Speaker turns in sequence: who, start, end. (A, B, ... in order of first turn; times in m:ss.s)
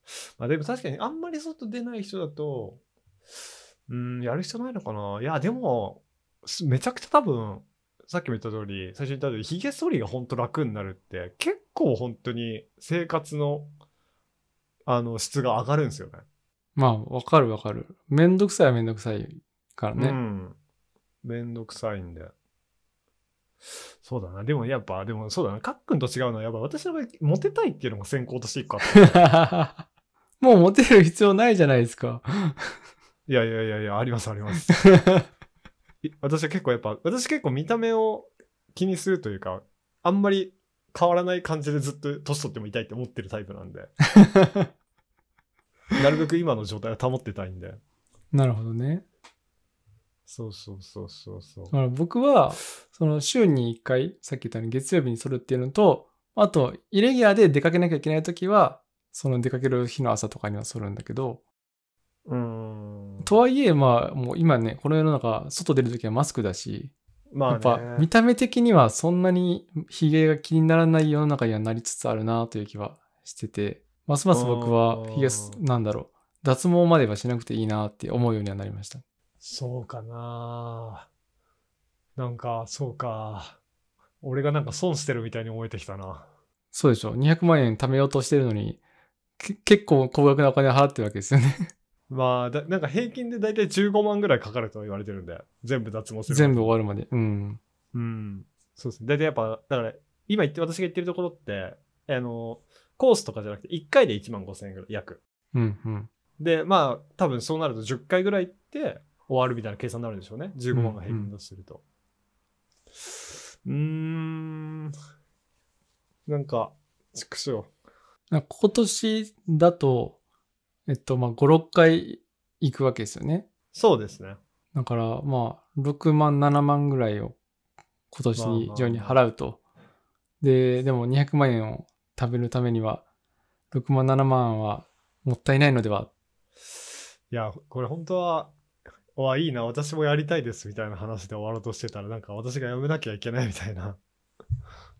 0:00.4-0:02.8 A
0:03.9-0:13.7 A
0:14.9-0:16.2 A
0:16.8-0:20.2 B
0:20.0-0:20.6 A
0:21.2-0:22.3 A
0:24.0-0:29.3 A
0:28.9-0:29.8 B
0:30.4-0:32.8 B
0:33.3-0:34.8 A
0:34.7-0:35.2 B
0:36.0-0:43.9 A
0:44.1-0:44.7 B
0:46.0-0:47.8 A
0:48.3-0:49.0 B
0:50.3-0:51.7 A
0:51.7-1:01.4 B
1:02.2-1:03.4 A
1:03.2-1:06.9 B
1:07.3-1:08.1 A
1:07.5-1:19.0 B
1:14.3-1:15.6 A
1:19.4-1:21.1 A
1:22.2-1:23.6 A
1:24.2-1:26.3 A
1:26.7-1:28.8 B
1:29.4-1:31.7 B
1:32.1-1:36.7 A
1:36.3-1:37.6 B
1:37.9-1:45.2 A
1:45.5-1:46.1 B
1:46.4-1:51.8 A
1:50.7-1:51.3 B
1:53.6-1:54.9 A
1:56.3-1:57.7 A
1:58.3-2:00.2 B
2:00.9-2:03.4 B
2:03.7-2:04.4 A
2:04.7-2:07.4 B
2:08.1-2:09.6 B
2:08.4-2:09.2 A
2:10.4-2:13.0 B
2:13.7-2:16.1 B
2:17.3-2:18.5 A
2:19.2-2:24.0 A